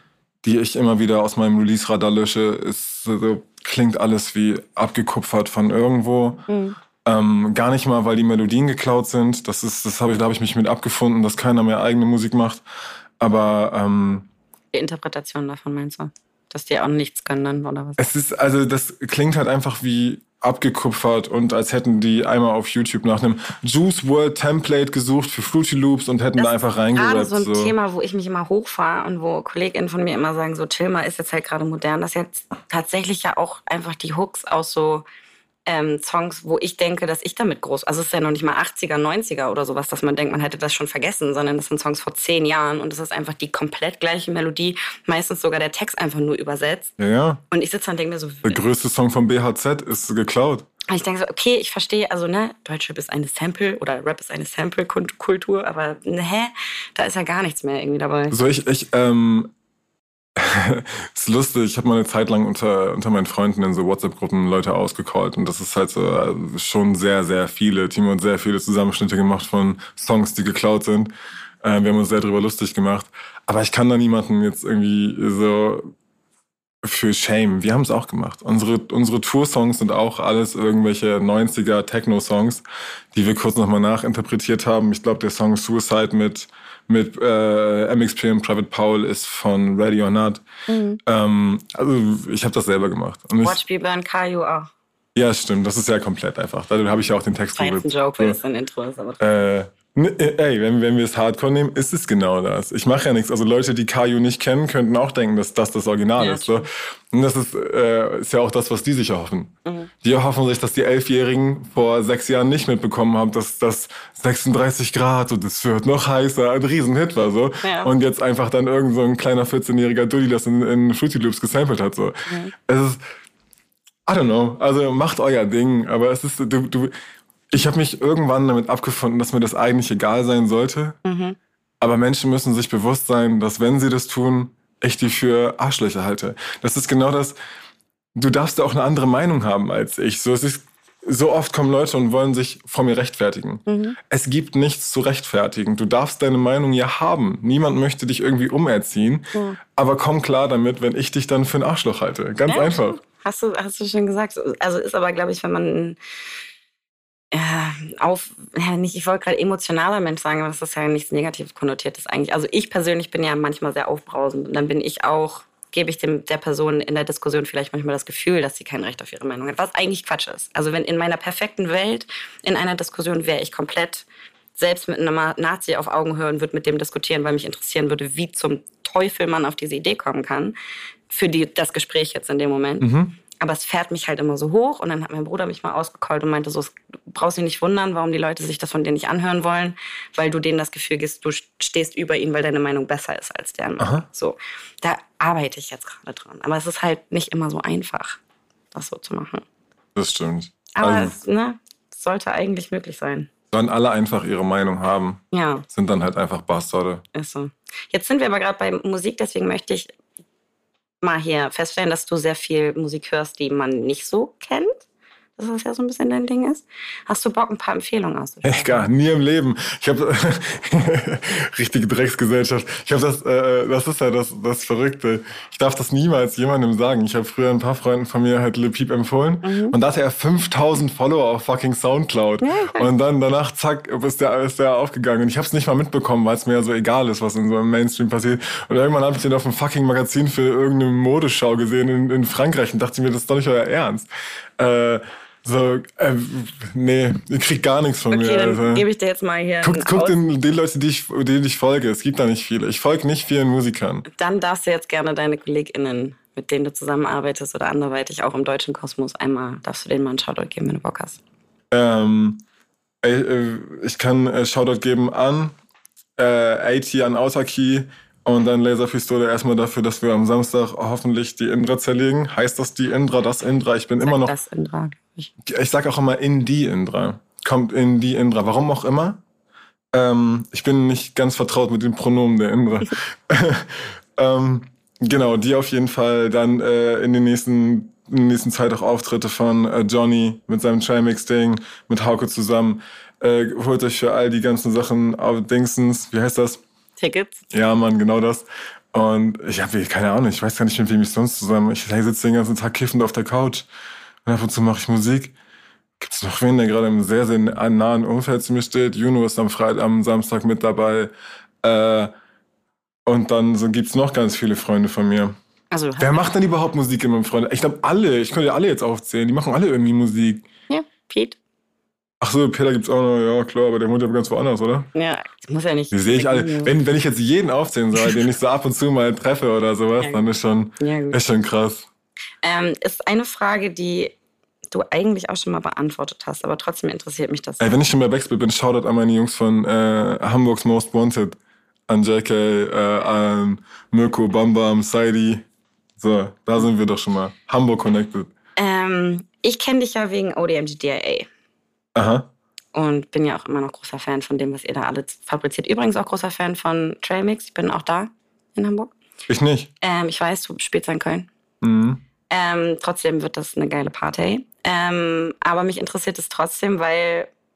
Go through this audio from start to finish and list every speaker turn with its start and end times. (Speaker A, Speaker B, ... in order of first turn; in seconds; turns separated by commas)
Speaker A: 0.4-6.4, Speaker B: 6.5-6.8, Speaker A: 7.0-12.6, Speaker A: 13.2-14.3, Speaker B: 14.7-18.0, Speaker A: 18.0-27.7, Speaker B: 26.4-35.0, Speaker B: 35.6-46.9, Speaker A: 47.0-47.4, Speaker B: 47.5-48.6, Speaker A: 48.4-50.6, Speaker B: 50.9-58.4, Speaker A: 58.3-59.5, Speaker A: 60.4-71.1, Speaker A: 71.6-75.9, Speaker A: 76.8-90.4, Speaker B: 90.7-91.0, Speaker A: 91.0-93.6, Speaker B: 93.4-94.7, Speaker A: 95.1-98.4, Speaker B: 97.5-99.2, Speaker A: 99.2-123.0, Speaker B: 106.2-106.6, Speaker B: 109.6-109.9, Speaker B: 117.6-117.9, Speaker B: 122.3-122.5, Speaker A: 124.0-126.9, Speaker A: 127.5-131.0, Speaker B: 131.0-131.4, Speaker A: 131.8-137.4, Speaker A: 138.1-153.0, Speaker B: 143.7-144.0, Speaker B: 149.3-149.6, Speaker B: 152.5-156.0, Speaker B: 157.3-174.1, Speaker B: 174.6-180.6, Speaker B: 181.1-198.2, Speaker A: 182.8-183.1, Speaker A: 193.8-194.1, Speaker B: 198.7-199.4, Speaker A: 199.9-201.1, Speaker B: 200.7-203.3, Speaker A: 203.5-207.0, Speaker B: 205.3-205.6, Speaker B: 207.1-209.9, Speaker B: 211.0-214.8, Speaker B: 215.4-218.9, Speaker A: 218.4-248.8, Speaker B: 229.4-229.7, Speaker B: 232.4-232.9, Speaker B: 248.1-250.2, Speaker A: 249.6-254.1, Speaker B: 254.1-261.2, Speaker A: 261.7-262.4, Speaker A: 263.0-265.5, Speaker A: 266.2-274.3, Speaker B: 274.0-275.3, Speaker A: 275.4-279.2, Speaker A: 279.9-296.6, Speaker B: 297.0-297.4, Speaker A: 297.5-303.7, Speaker A: 304.2-305.3, Speaker A: 306.0-311.1, Speaker A: 311.6-312.1, Speaker A: 313.1-315.4, Speaker B: 315.7-316.2, Speaker A: 316.0-320.4, Speaker B: 320.7-321.4, Speaker A: 322.2-324.9, Speaker B: 324.9-326.7, Speaker A: 325.9-331.9, Speaker B: 330.0-330.2, Speaker B: 330.8-331.2, Speaker B: 332.4-334.1, Speaker B: 334.7-337.7, Speaker A: 337.6-345.4, Speaker A: 346.0-348.3, Speaker B: 348.6-351.3, Speaker A: 351.9-352.3, Speaker B: 352.7-358.9, Speaker A: 359.3-359.7, Speaker B: 359.8-361.3, Speaker A: 361.6-362.0, Speaker B: 362.3-367.3